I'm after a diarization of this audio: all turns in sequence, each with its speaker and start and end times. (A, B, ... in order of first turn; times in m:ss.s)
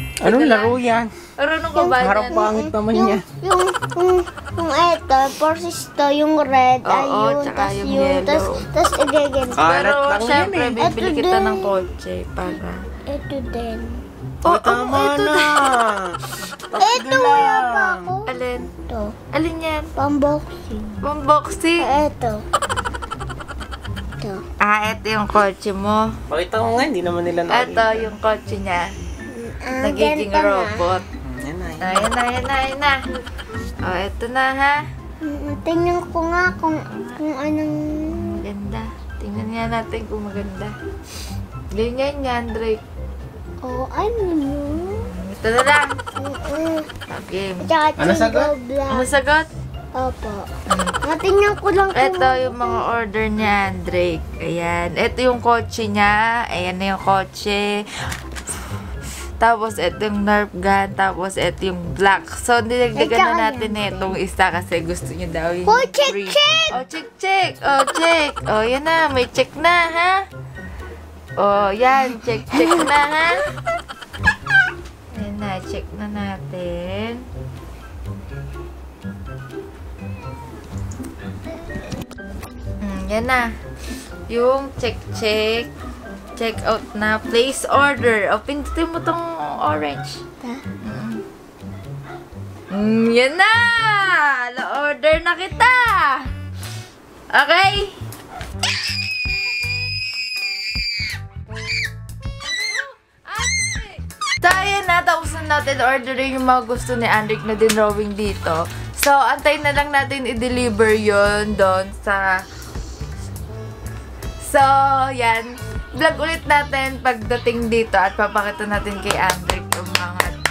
0:00.2-0:01.1 A
0:00.2-0:00.8 B
0:01.4-0:02.4 B
0:01.8-0:09.6 C
0:02.0-0:03.2 A
0:06.8-0:08.6 B
0:09.5-0:10.9 A
0:09.6-0:12.8 B
0:10.8-0:11.7 C
0:13.1-0:14.0 C
0:14.4-0:15.8 B
0:14.4-0:16.2 A
0:16.7-0:18.1 A
0:16.7-0:19.2 C
0:18.3-0:18.7 B
0:19.3-0:19.9 B
0:20.0-0:21.0 C
0:21.0-0:21.9 B
0:21.8-0:22.4 C
0:24.6-0:26.0 B
0:26.3-0:28.1 A
0:27.5-0:28.9 B
0:29.3-0:30.8 C
0:29.8-0:31.0 B
0:31.2-0:32.1 A
0:31.8-0:33.0 B
0:33.8-0:34.8 B
0:35.2-0:38.4 C
0:36.9-0:37.2 B
0:38.1-0:40.7 B
0:41.7-0:42.8 B
0:43.6-0:45.1 C
0:45.0-0:45.9 B
0:46.2-0:46.9 C
0:47.1-0:47.7 B
0:47.6-0:49.1 C
0:48.0-0:48.5 A
0:48.9-0:49.5 B
0:49.9-0:50.5 C
0:50.7-0:51.0 B
0:51.0-0:52.9 C
0:51.9-0:58.1 B
0:59.4-1:10.2 B
1:03.0-1:04.2 C
1:05.7-1:06.8 C
1:11.4-1:13.5 B
1:12.5-1:12.9 C
1:15.2-1:17.2 B
1:22.8-1:23.5 B
1:24.3-1:25.7 B
1:26.4-1:30.2 B
1:30.8-1:31.2 B
1:32.7-1:36.3 B
1:37.3-1:38.0 B
1:42.4-1:52.3 B
1:54.4-2:00.4 B